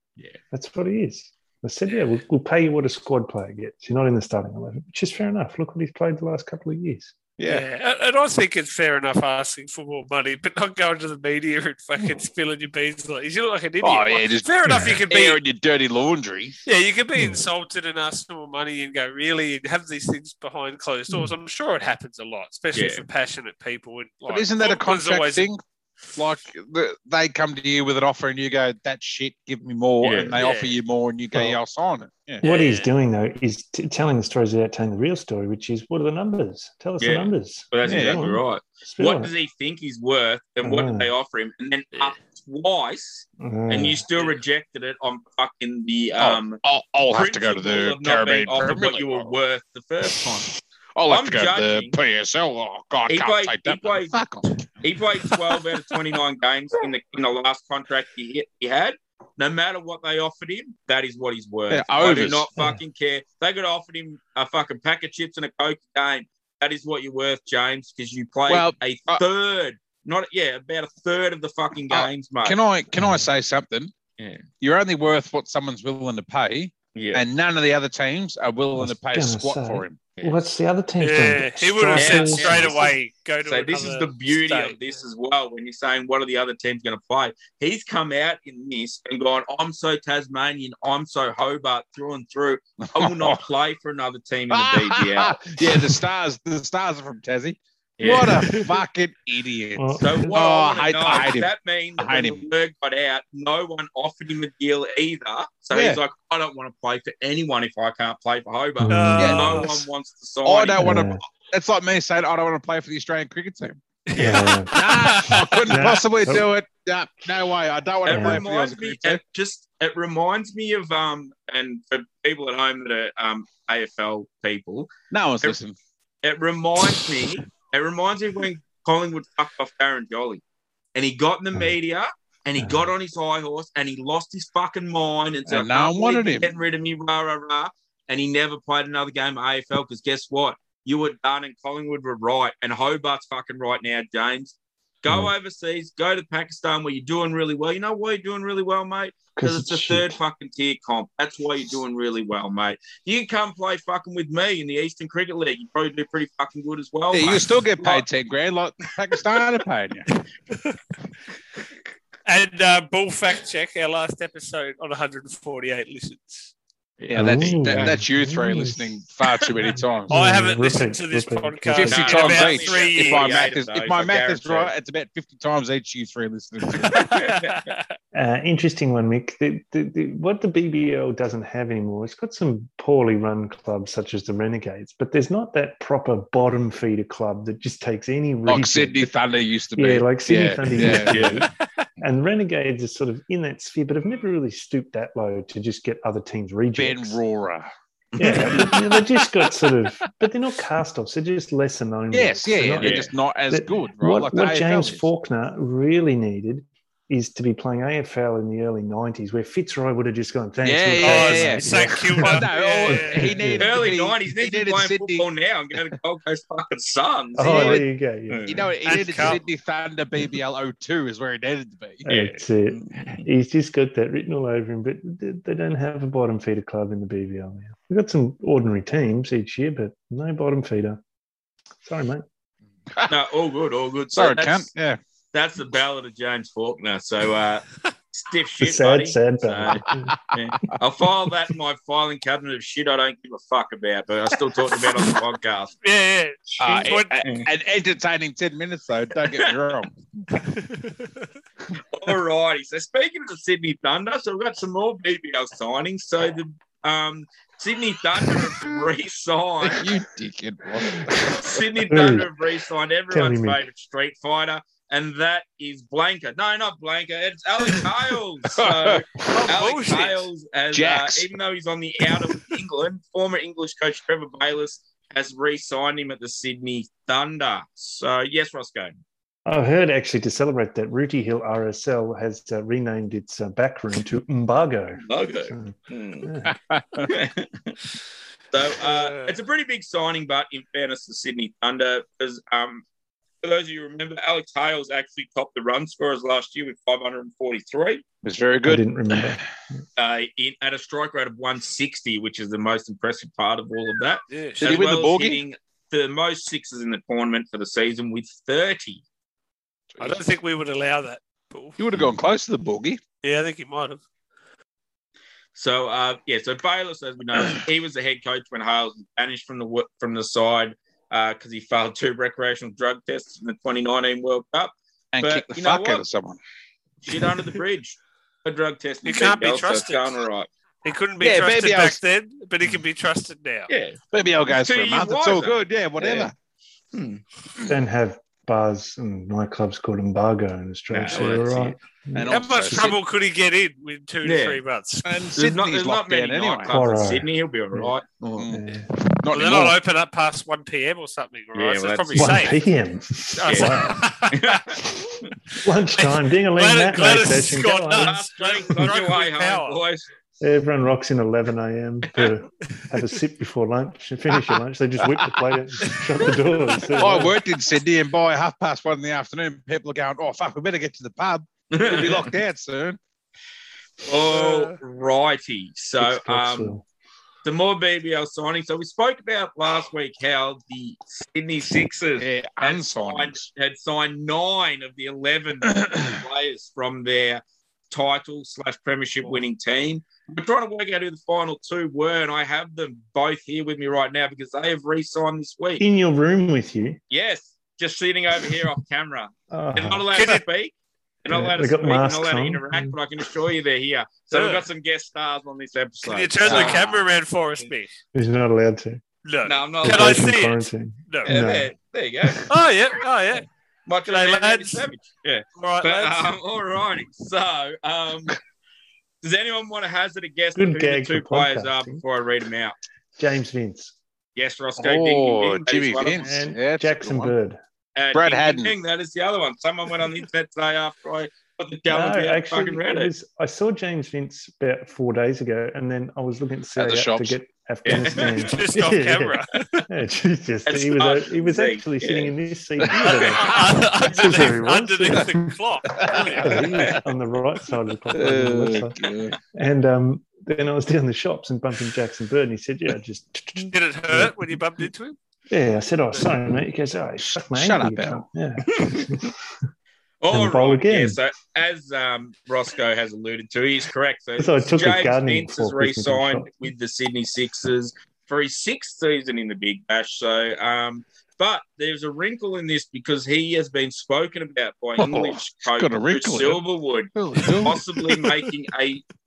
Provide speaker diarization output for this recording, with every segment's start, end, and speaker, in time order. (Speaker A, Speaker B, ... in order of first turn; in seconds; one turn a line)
Speaker A: 0.5-7.2
Speaker B: 7.4-7.7
Speaker C: 7.5-15.4
Speaker B: 13.8-16.6
Speaker A: 14.7-15.0
Speaker C: 16.7-25.5
Speaker A: 17.2-17.4
Speaker D: 22.7-23.1
Speaker B: 24.3-25.6
Speaker B: 26.1-32.4
Speaker D: 30.0-30.4
Speaker C: 30.4-30.8
Speaker A: 31.3-31.6
Speaker C: 32.4-32.9
Speaker A: 32.4-39.3
Speaker D: 37.0-50.5
Speaker B: 37.9-38.2
Speaker A: 40.6-41.1
Speaker A: 43.4-44.0
Speaker B: 46.2-49.4
Speaker B: 51.0-55.8
Speaker D: 51.1-52.0
Speaker D: 53.1-54.2
Speaker D: 54.8-72.6
Speaker B: 61.7-62.5
Speaker B: 68.5-69.2
Speaker B: 71.9-73.9
Speaker A: 72.9-73.3
Speaker D: 74.2-74.4
Speaker B: 74.6-80.0
Speaker D: 76.9-77.2
Speaker A: 78.8-82.9
Speaker D: 80.2-80.4
Speaker C: 81.0-84.8
Speaker D: 82.0-95.5
Speaker B: 92.9-93.4
Speaker B: 94.5-102.5
Speaker D: 98.0-98.5
Speaker A: 99.8-100.3
Speaker D: 100.0-110.9
Speaker B: 105.7-106.0
Speaker A: 108.8-109.8
Speaker C: 108.9-109.8
Speaker B: 109.2-109.7
Speaker B: 110.5-113.8
Speaker A: 110.8-111.2
Speaker C: 114.1-115.9
Speaker A: 114.2-114.8
Speaker B: 114.7-119.2
Speaker A: 115.7-116.5
Speaker D: 118.0-125.6
Speaker A: 118.1-118.4
Speaker B: 125.1-125.8
Speaker D: 126.2-130.4
Speaker D: 130.9-158.1
Speaker A: 132.6-132.9
Speaker B: 135.5-136.5
Speaker A: 149.4-150.2
Speaker B: 157.1-160.1
Speaker C: 160.2-160.8
Speaker C: 162.3-166.5
Speaker D: 167.0-168.0
Speaker A: 167.1-168.9
Speaker B: 167.1-170.2
Speaker C: 170.1-173.5
Speaker A: 170.1-172.0
Speaker B: 171.7-177.2
Speaker D: 171.8-174.7
Speaker C: 176.9-177.8
Speaker D: 176.9-177.6
Speaker A: 178.1-189.1
Speaker B: 188.5-191.4
Speaker A: 189.8-197.2
Speaker D: 191.0-191.5
Speaker B: 196.8-197.7
Speaker D: 198.1-198.7
Speaker A: 198.2-213.9
Speaker B: 198.2-199.9
Speaker B: 202.1-205.1
Speaker D: 202.8-203.1
Speaker B: 210.6-215.3
Speaker C: 211.0-213.6
Speaker D: 213.6-218.7
Speaker A: 217.4-218.4
Speaker B: 217.4-217.8
Speaker B: 218.5-222.1
Speaker C: 218.8-219.4
Speaker A: 222.1-231.0
Speaker D: 222.1-223.2
Speaker A: 231.8-232.2
Speaker D: 233.1-234.7
Speaker B: 234.1-235.0
Speaker D: 235.3-245.7
Speaker A: 238.6-240.1
Speaker B: 239.9-240.8
Speaker C: 245.8-247.2
Speaker B: 246.6-250.2
Speaker D: 249.2-249.6
Speaker C: 250.3-251.3
Speaker D: 251.8-260.0
Speaker B: 259.6-261.6
Speaker A: 261.0-262.3
Speaker D: 261.3-279.0
Speaker A: 263.1-263.7
Speaker B: 268.5-269.3
Speaker C: 269.4-270.3
Speaker B: 270.7-271.3
Speaker A: 279.5-286.6
Speaker D: 285.1-286.3
Speaker B: 286.4-287.1
Speaker D: 287.0-287.8
Speaker D: 288.5-292.8
Speaker C: 288.8-289.4
Speaker D: 293.4-298.0
Speaker B: 298.2-299.5
Speaker A: 298.6-299.4
Speaker D: 300.0-309.0
Speaker C: 304.3-304.8
Speaker B: 304.6-305.4
Speaker B: 309.9-310.2
Speaker C: 310.0-311.8
Speaker B: 311.8-313.0
Speaker C: 313.2-314.0
Speaker D: 315.6-326.1
Speaker B: 325.1-326.4
Speaker D: 327.0-330.5
Speaker C: 329.1-330.2
Speaker C: 330.8-333.7
Speaker B: 331.2-332.0
Speaker D: 333.7-336.3
Speaker B: 334.1-336.3
Speaker D: 336.9-337.2
Speaker A: 337.7-342.4
Speaker D: 340.9-341.8
Speaker C: 341.1-341.5
Speaker B: 342.1-343.0
Speaker C: 342.3-345.3
Speaker D: 344.2-344.6
Speaker B: 345.1-346.8
Speaker D: 345.4-348.5
Speaker A: 346.7-347.9
Speaker B: 348.4-349.8
Speaker A: 348.5-349.7
Speaker C: 349.3-352.6
Speaker D: 351.5-352.4
Speaker A: 352.1-354.1
Speaker C: 353.4-354.8
Speaker D: 353.4-353.7
Speaker D: 354.3-354.8
Speaker A: 355.6-358.2
Speaker C: 356.0-359.8
Speaker D: 358.0-360.1
Speaker A: 360.4-367.4
Speaker C: 362.8-363.0
Speaker C: 365.8-367.3
Speaker B: 367.0-373.0
Speaker D: 371.7-372.3
Speaker D: 374.0-376.8
Speaker C: 374.3-374.8
Speaker A: 376.0-376.8
Speaker D: 377.4-395.8
Speaker B: 382.2-383.4
Speaker B: 385.7-386.2
Speaker A: 395.8-397.0
Speaker D: 397.1-407.0
Speaker A: 399.5-400.0
Speaker C: 400.1-400.4
Speaker A: 401.3-403.0
Speaker C: 404.3-404.7
Speaker C: 406.0-407.9
Speaker A: 406.5-406.8
Speaker A: 408.1-409.0
Speaker C: 409.2-411.4
Speaker D: 409.4-410.4
Speaker A: 409.8-412.4
Speaker D: 411.2-412.5
Speaker C: 412.5-413.5
Speaker D: 413.9-418.4
Speaker C: 414.1-414.9
Speaker C: 415.6-416.3
Speaker D: 419.2-422.8
Speaker A: 420.6-422.0
Speaker A: 423.2-423.9
Speaker D: 424.4-426.3
Speaker B: 424.8-427.4
Speaker A: 426.2-427.6
Speaker D: 427.9-433.1
Speaker B: 428.1-428.8
Speaker A: 431.9-448.9
Speaker B: 436.8-437.4
Speaker D: 437.9-438.5
Speaker C: 438.2-439.9
Speaker D: 440.7-442.4
Speaker C: 443.0-447.0
Speaker B: 445.9-447.0
Speaker B: 448.1-449.4
Speaker A: 449.5-454.6
Speaker C: 453.6-455.2
Speaker A: 455.5-459.5
Speaker C: 456.1-456.4
Speaker B: 457.2-458.2
Speaker D: 458.7-459.1
Speaker D: 460.2-479.0
Speaker A: 460.3-461.2
Speaker A: 464.4-466.5
Speaker B: 475.0-476.6
Speaker B: 477.1-477.8